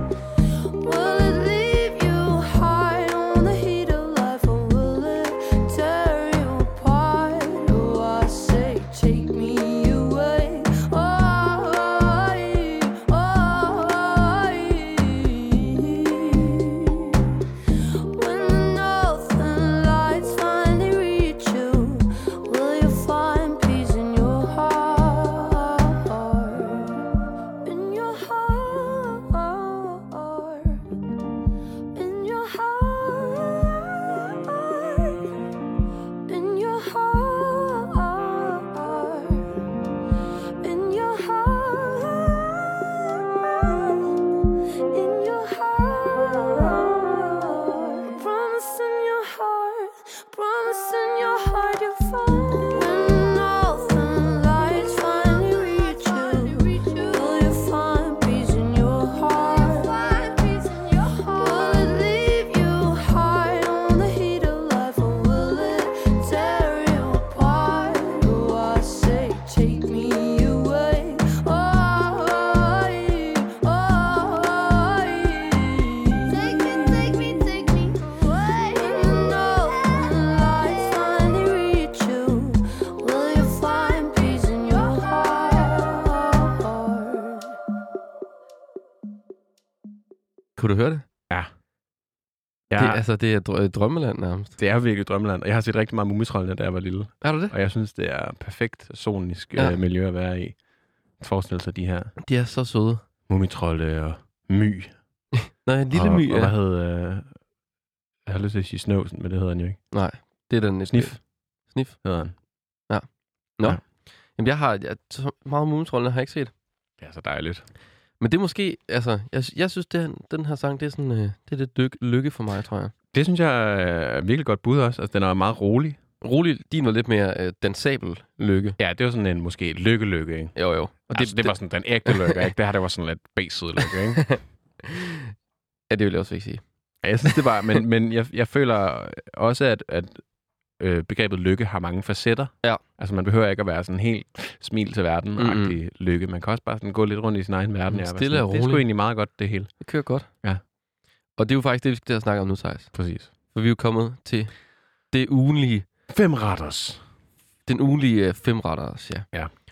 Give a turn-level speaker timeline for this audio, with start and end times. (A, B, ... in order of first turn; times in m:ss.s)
0:00.8-0:17.2 A
0:18.1-0:26.9 A
0:27.6-0:30.8 A
0:32.0-0:35.3 A
0:36.3-0:39.5 A
0:40.6-0:44.2 A
0:44.9-1:27.5 A
1:30.6-1:31.0 B
1:32.7-1:33.0 C
1:32.8-1:34.6 B
1:34.6-1:40.6 C
1:37.2-1:37.5 B
1:41.2-1:42.1 C
1:42.2-1:43.0 B
1:43.3-1:45.0 C
1:45.5-1:46.5 B
1:45.9-1:47.4 C
1:48.3-1:49.8 C
1:49.9-1:52.1 B
1:50.9-1:52.4 C
1:52.9-1:56.5 B
1:57.0-1:57.6 C
1:58.2-2:02.9 B
2:03.1-2:06.0 C
2:06.2-2:08.8 B
2:08.8-2:10.6 C
2:10.6-2:12.5 B
2:11.1-2:14.4 C
2:14.9-2:15.2 B
2:15.9-2:16.6 B
2:17.0-2:20.2 C
2:20.8-2:29.8 C
2:25.4-2:25.8 B
2:27.9-2:28.9 B
2:29.8-2:30.3 B
2:31.4-2:34.5 B
2:32.9-2:33.3 C
2:35.1-2:35.9 B
2:36.1-2:37.0 C
2:37.7-2:39.3 B